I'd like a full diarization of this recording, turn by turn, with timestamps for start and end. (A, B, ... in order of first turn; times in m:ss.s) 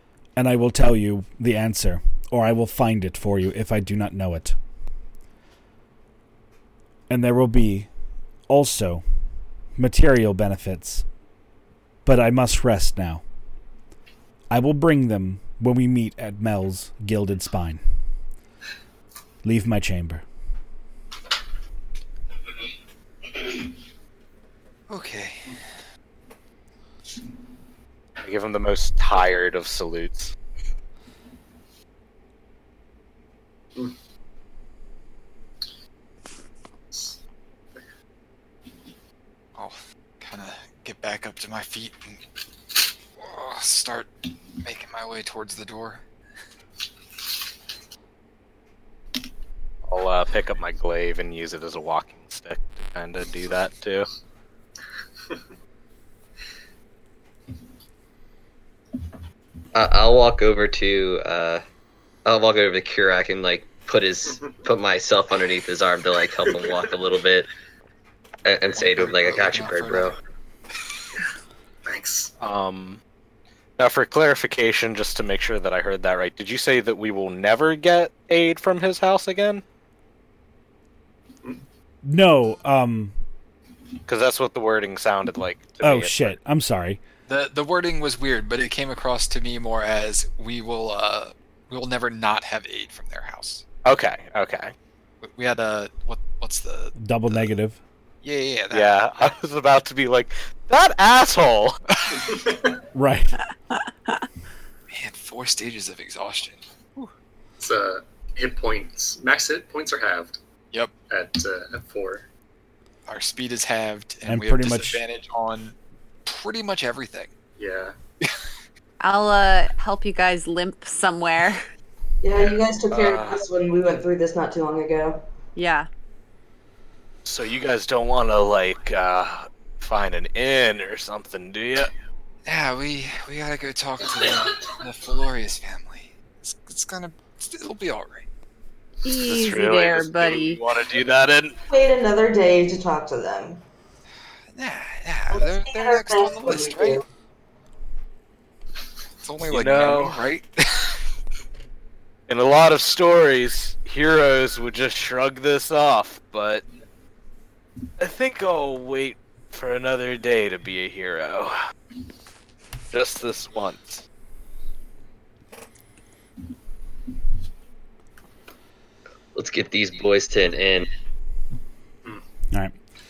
0:00.4-0:04.6 A
0:07.1-0:07.9 A
0:08.5-0:09.0 A
0:09.8-0:11.0 A
0:12.1-0:13.2 A
0:14.5-0:17.8 A
0:19.4-0:20.2 A
0:24.9-0:25.6 B
0:28.2-0:30.3 C
0:36.9-0:37.2 D
0:39.6-0:42.2 B
0:43.2-0:46.0 B
0:49.9-0:54.1 C
0:59.7-1:01.6 E
1:02.2-1:07.5 E
1:08.4-1:10.2 E
1:08.7-1:10.2 B
1:11.9-1:12.3 D
1:12.4-1:13.0 C
1:13.8-1:19.6 C
1:22.0-1:23.2 A
1:24.1-1:26.3 C
1:25.8-1:27.0 A
1:27.3-1:33.6 B
1:33.8-1:34.7 C
1:35.2-1:37.5 B
1:37.0-1:37.8 A
1:38.2-1:39.4 B
1:38.7-1:41.8 C
1:41.9-1:42.3 B
1:42.2-1:42.8 D
1:42.9-1:43.4 A
1:43.7-1:44.2 F
1:44.9-1:47.1 B
1:47.6-1:50.4 D
1:51.1-1:52.2 D
1:53.1-1:57.3 B
1:54.3-1:55.0 A
1:57.6-1:58.0 D
1:59.0-2:01.7 F
2:02.2-2:05.2 G
2:02.9-2:03.4 C
2:05.6-2:05.9 F
2:07.2-2:11.9 C
2:12.5-2:18.3 B
2:19.0-2:20.6 F
2:19.2-2:21.6 C
2:21.7-2:23.6 G
2:24.5-2:27.0 B
2:25.3-2:27.0 G
2:29.2-2:31.0 B
2:29.5-2:30.2 C
2:32.3-2:36.6 C
2:38.0-2:41.6 C
2:42.9-2:44.0 C
2:49.4-2:50.9 E